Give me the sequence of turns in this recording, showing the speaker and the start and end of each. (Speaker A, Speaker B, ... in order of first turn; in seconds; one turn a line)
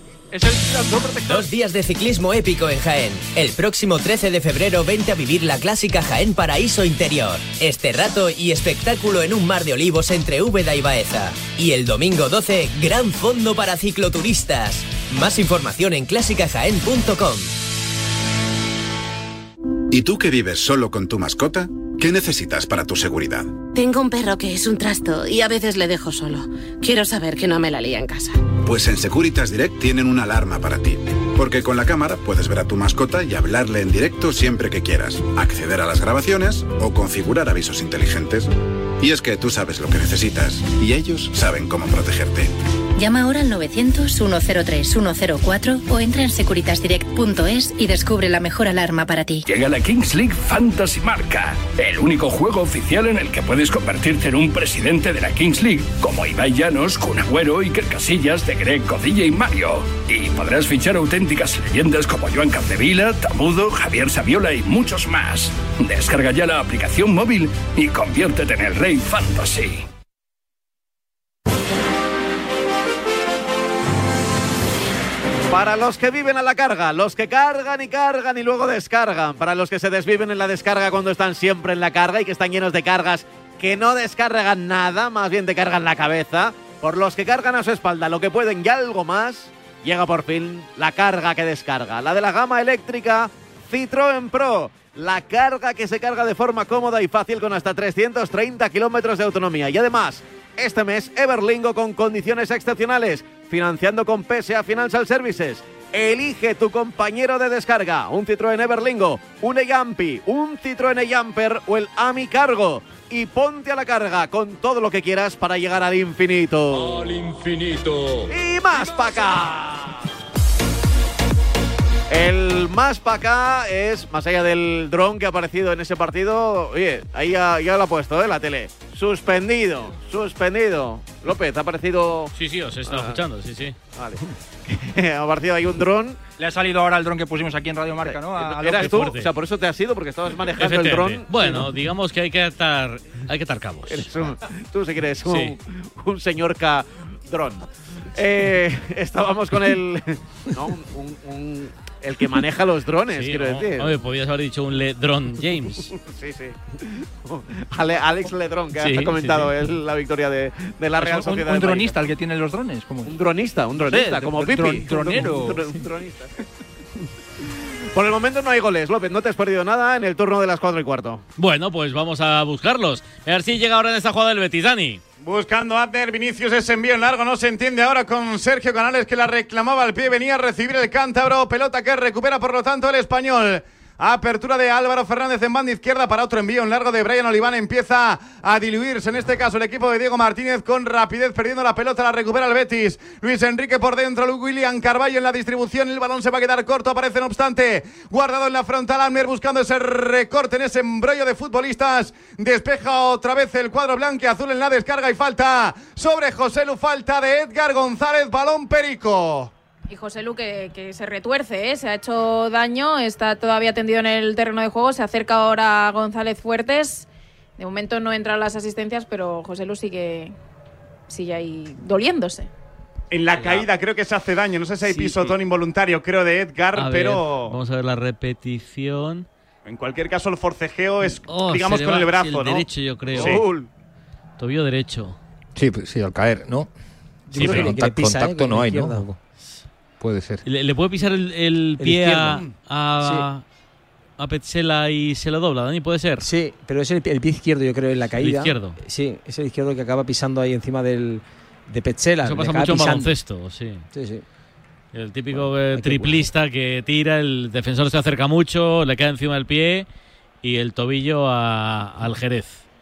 Speaker A: 0.3-1.4
Speaker B: 1.3-17.5
Speaker C: 19.9-23.6
Speaker D: 23.7-28.4
Speaker C: 28.6-42.5
Speaker E: 43.0-49.4
Speaker F: 49.5-69.8
Speaker G: 75.5-117.2
Speaker G: 118.3-120.0
Speaker G: 122.1-132.3
Speaker H: 132.3-133.7
Speaker G: 132.9-133.2
Speaker G: 133.9-136.2
Speaker A: 136.4-139.1
Speaker G: 138.0-141.7
Speaker H: 138.8-139.3
Speaker H: 140.6-144.3
Speaker G: 143.9-153.9
Speaker H: 145.3-145.6
Speaker H: 153.1-155.9
Speaker G: 156.0-162.0
Speaker H: 158.8-159.5
Speaker A: 161.0-163.1
Speaker G: 163.1-166.3
Speaker A: 163.8-165.6
Speaker G: 167.9-171.2
Speaker H: 171.4-175.0
Speaker I: 175.2-209.5
Speaker J: 209.9-217.1
Speaker J: 217.6-220.3
Speaker J: 221.1-222.5
Speaker I: 223.1-227.6
Speaker H: 223.3-223.7
Speaker H: 224.8-225.4
Speaker H: 226.7-229.3
Speaker I: 229.7-233.4
Speaker H: 231.3-233.4
Speaker G: 233.1-233.7
Speaker H: 234.4-235.2
Speaker K: 235.6-236.7
Speaker L: 237.3-239.1
Speaker K: 237.3-239.2
Speaker H: 237.3-237.7
Speaker K: 240.0-240.4
Speaker H: 240.4-243.4
Speaker L: 241.8-242.4
Speaker L: 243.0-243.3
Speaker H: 244.2-246.2
Speaker L: 246.2-253.1
Speaker H: 248.2-248.8
Speaker H: 252.2-253.8
Speaker L: 253.9-254.2
Speaker H: 254.9-259.9
Speaker L: 255.3-256.2
Speaker H: 260.4-262.6